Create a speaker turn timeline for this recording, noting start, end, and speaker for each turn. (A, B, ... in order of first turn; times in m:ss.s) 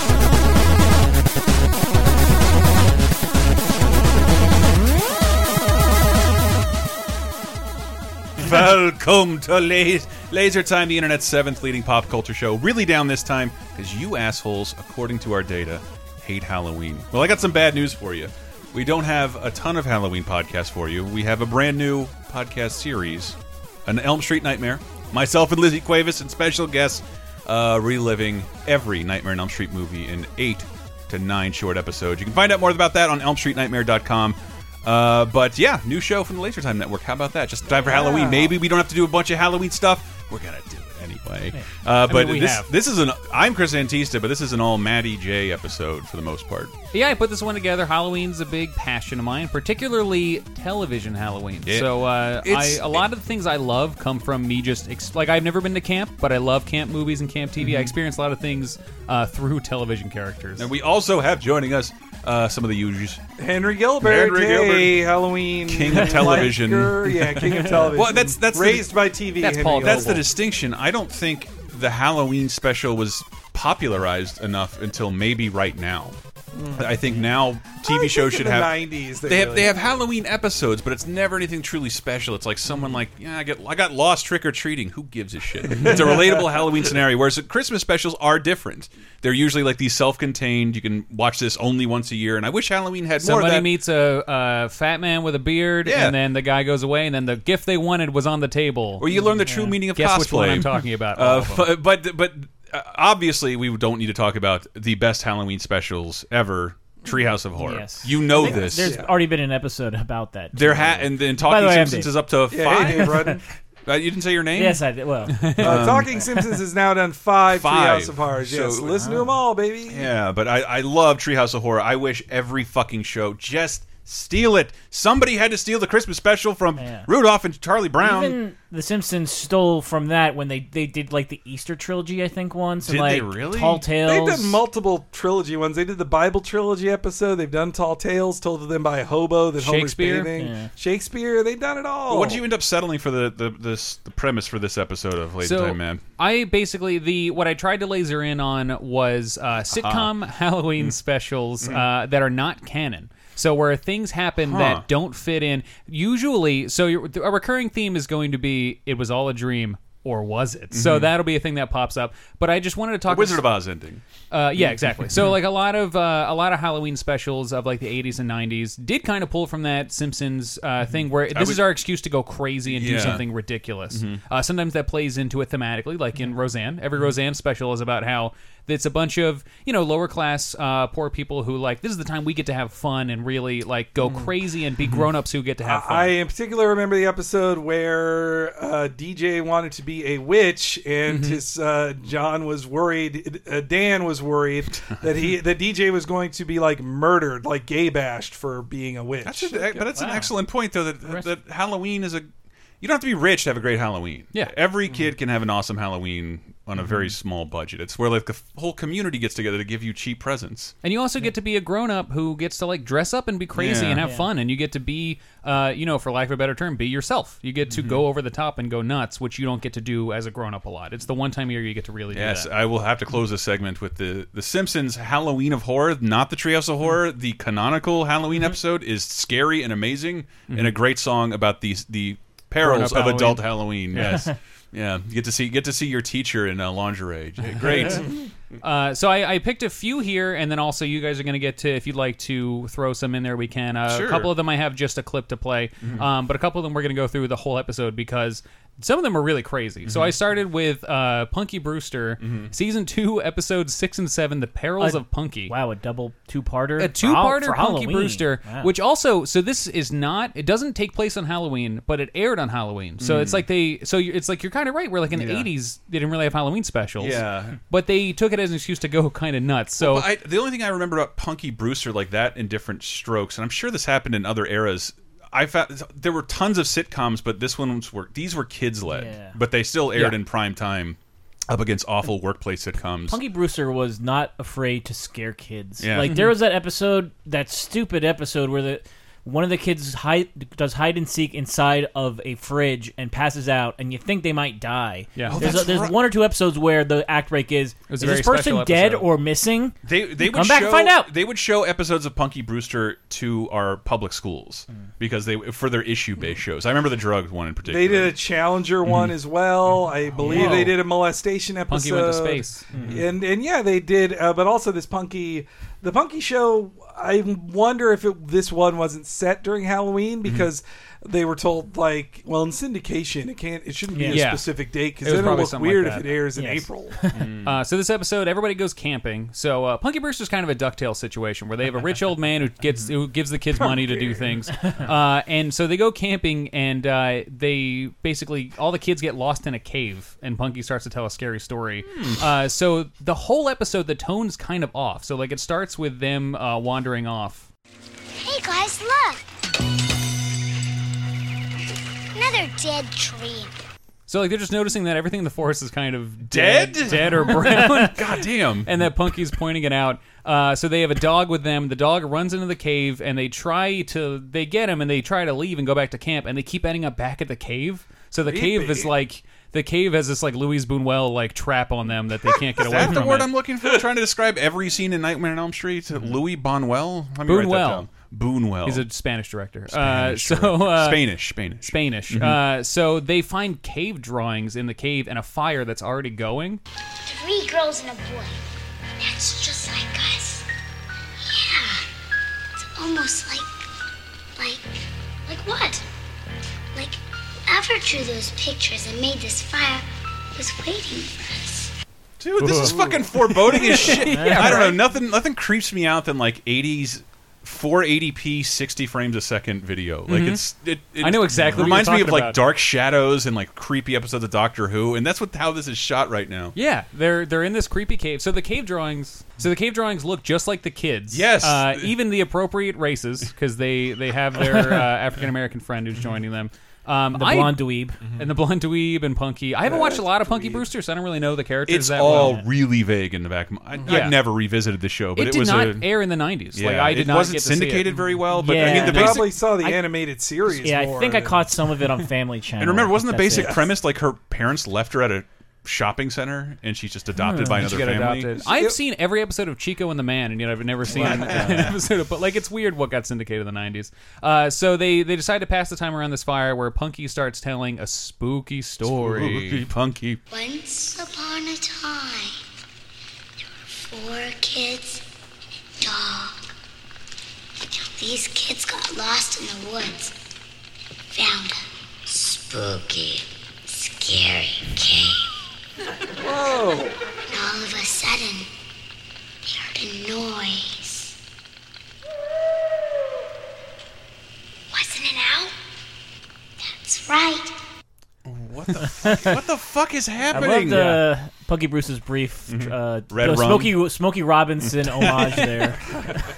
0:08.4-0:46.7 A
0:37.8-0:38.5 B
0:42.1-0:42.7 C
0:46.9-1:00.7 C
0:52.4-0:53.0 A
0:57.6-0:57.9 A
1:00.6-1:03.2 A
1:03.4-1:10.2 B
1:04.0-1:05.0 A
1:05.7-1:07.1 A
1:06.1-1:06.5 D
1:07.8-1:08.9 A
1:09.4-1:10.2 C
1:09.8-1:16.2 A
1:16.5-1:16.9 B
1:16.8-1:33.7 A
1:17.8-1:19.7 B
1:25.7-1:26.4 B
1:33.2-1:41.7 C
1:35.8-1:36.1 A
1:39.0-1:48.9 A
1:39.2-1:39.8 D
1:47.6-1:52.1 D
1:48.4-1:49.1 B
1:50.5-1:53.3 A
1:52.5-1:53.4 B
1:52.8-1:53.2 D
1:53.8-1:54.8 A
1:54.5-1:55.7 D
1:55.6-1:56.2 A
1:55.6-2:00.1 B
1:57.5-1:59.1 A
1:59.0-1:59.3 D
1:59.9-2:08.4 A
2:06.8-2:07.1 D
2:08.0-2:14.6 D
2:12.8-2:13.8 A
2:14.0-2:22.4 B
2:19.6-2:20.3 C
2:20.4-2:20.7 D
2:22.1-2:26.0 A
2:25.4-2:43.4 C
2:29.7-2:30.1 A
2:34.4-2:34.8 A
2:40.7-2:41.1 A
2:43.1-2:44.0 A
2:44.3-3:06.1 C
2:44.6-2:45.3 A
2:51.3-2:51.6 A
2:52.7-2:53.2 A
2:53.9-2:54.2 A
3:05.6-3:19.9 B
3:11.1-3:11.4 C
3:19.2-3:22.3 A
3:20.0-3:20.3 D
3:22.8-3:30.7 A
3:30.8-3:42.5 C
3:33.6-3:34.0 A
3:34.0-3:34.3 D
3:37.7-3:38.0 A
3:42.1-3:58.0 A
3:50.5-3:50.7 C
3:52.6-3:54.3 C
3:54.0-3:54.3 D
3:58.6-4:15.5 C
4:03.9-4:04.3 A
4:05.8-4:06.1 A
4:09.8-4:10.2 A
4:12.2-4:12.5 A
4:14.8-4:18.7 D
4:16.8-4:30.1 C
4:23.0-4:23.4 A
4:25.1-4:25.5 A
4:27.0-4:27.6 A
4:29.8-4:41.0 A
4:38.9-4:39.4 D
4:41.5-4:43.2 A
4:43.1-5:01.1 D
4:45.8-4:46.3 A
4:55.2-4:55.5 C
4:55.3-4:56.0 A
4:57.9-4:59.0 C
4:59.8-5:08.1 A
5:07.6-5:27.0 B
5:08.8-5:09.1 A
5:10.2-5:10.8 D
5:11.7-5:12.7 C
5:12.7-5:13.0 D
5:23.9-5:24.2 D
5:24.1-5:24.5 C
5:25.0-5:26.2 C
5:26.3-5:27.2 D
5:27.1-5:27.5 A
5:27.4-5:47.5 C
5:33.6-5:34.2 B
5:48.2-5:49.2 E
5:52.1-5:53.5 E
5:54.1-6:13.3 C
5:56.2-5:58.7 A
6:08.2-6:08.9 B
6:12.6-6:18.8 A
6:17.2-6:17.9 C
6:18.6-6:21.0 C
6:19.7-6:22.4 A
6:21.6-6:26.6 C
6:27.0-6:28.4 E
6:29.0-6:30.4 E
6:31.2-6:31.8 E
6:32.6-6:33.6 E
6:34.4-6:35.8 E
6:36.7-6:41.7 E
6:42.2-6:56.6 A
6:42.4-6:42.7 C
6:42.6-6:43.0 B
6:43.5-6:44.8 C
6:43.9-6:44.8 D
6:50.1-6:50.4 C
6:51.0-6:52.4 C
6:56.6-7:12.4 C
7:01.1-7:01.9 A
7:04.4-7:04.8 D
7:07.1-7:08.0 D
7:09.6-7:10.6 B
7:11.7-7:15.9 A
7:12.0-7:12.4 D
7:13.9-7:14.2 C
7:15.2-7:19.2 C
7:16.5-7:19.2 A
7:18.3-7:19.8 D
7:18.6-7:21.5 B
7:20.6-7:23.7 D
7:22.6-7:28.3 A
7:27.2-7:27.8 D
7:27.5-7:39.6 C
7:28.4-7:28.7 B
7:30.9-7:31.7 A
7:31.0-7:31.3 B
7:31.0-7:31.7 D
7:38.8-7:40.2 A
7:40.3-7:42.4 E
7:43.6-7:45.0 E
7:45.8-7:46.5 E
7:47.6-7:50.1 E
7:51.1-7:55.3 E
7:56.2-7:57.0 B
7:57.3-7:58.5 E
7:59.4-8:01.2 E
8:04.7-8:05.5 E
8:06.6-8:07.5 E
8:08.2-8:11.0 A
8:09.0-8:09.4 D
8:10.3-8:16.2 D
8:10.6-8:11.0 C
8:12.5-8:13.8 A
8:14.7-8:15.4 A